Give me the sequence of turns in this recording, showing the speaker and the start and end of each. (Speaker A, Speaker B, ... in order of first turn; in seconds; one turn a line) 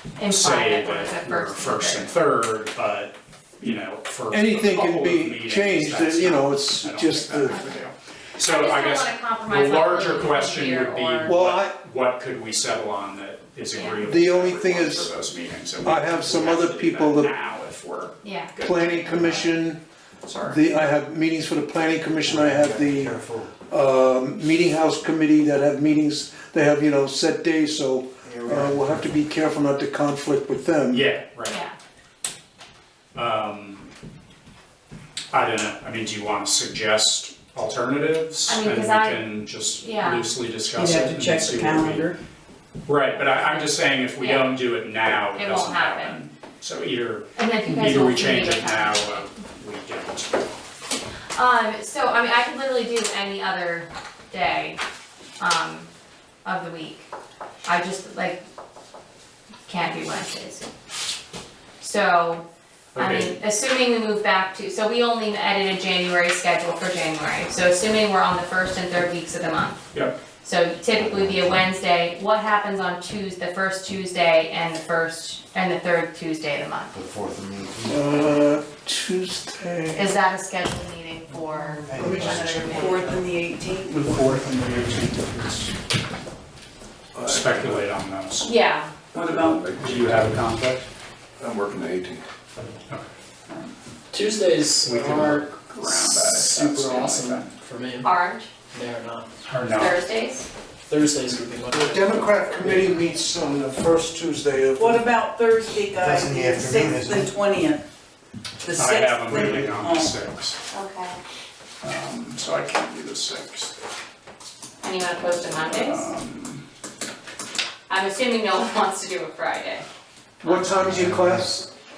Speaker A: 0.2-2.1
Speaker B: 0.3-19.5
Speaker C: 4.3-7.6
Speaker A: 7.5-7.8
Speaker A: 8.4-11.3
Speaker C: 11.2-11.8
Speaker A: 13.7-14.0
Speaker C: 14.0-15.1
Speaker C: 15.8-17.3
Speaker A: 18.2-18.5
Speaker C: 18.6-19.8
Speaker B: 20.2-20.6
Speaker C: 20.4-31.1
Speaker D: 22.2-23.5
Speaker D: 28.2-29.1
Speaker B: 30.9-31.6
Speaker A: 31.4-31.8
Speaker B: 33.1-33.9
Speaker B: 35.3-42.1
Speaker A: 38.5-40.3
Speaker E: 40.7-42.2
Speaker B: 42.9-50.5
Speaker A: 43.1-44.5
Speaker A: 45.3-46.2
Speaker A: 47.4-49.2
Speaker A: 51.3-54.8
Speaker A: 55.4-55.9
Speaker A: 56.4-57.1
Speaker A: 57.6-58.4
Speaker A: 59.6-60.6
Speaker A: 61.8-77.0
Speaker B: 62.9-63.3
Speaker B: 69.9-70.2
Speaker D: 76.9-78.0
Speaker C: 77.8-80.1
Speaker A: 79.9-83.2
Speaker C: 81.6-83.1
Speaker D: 81.9-82.4
Speaker E: 81.9-84.1
Speaker B: 83.9-85.8
Speaker F: 87.2-87.8
Speaker B: 87.2-88.5
Speaker A: 88.4-88.9
Speaker E: 89.1-89.6
Speaker B: 89.2-90.9
Speaker F: 89.5-90.3
Speaker F: 91.4-92.2
Speaker B: 92.9-93.7
Speaker G: 94.1-95.4
Speaker B: 94.8-97.5
Speaker F: 96.1-96.4
Speaker G: 96.3-98.1
Speaker A: 98.0-98.5
Speaker G: 98.7-99.2
Speaker B: 99.4-100.0
Speaker A: 99.7-100.5
Speaker G: 100.9-102.1
Speaker C: 101.7-105.1
Speaker E: 104.8-107.8
Speaker D: 106.0-107.3
Speaker E: 108.6-110.1
Speaker B: 108.7-110.6
Speaker A: 110.7-111.2
Speaker B: 111.8-113.7
Speaker A: 114.8-116.1
Speaker B: 115.6-116.6
Speaker A: 117.9-119.8
Speaker C: 120.4-121.7
Speaker A: 120.4-120.8
Speaker D: 120.8-121.5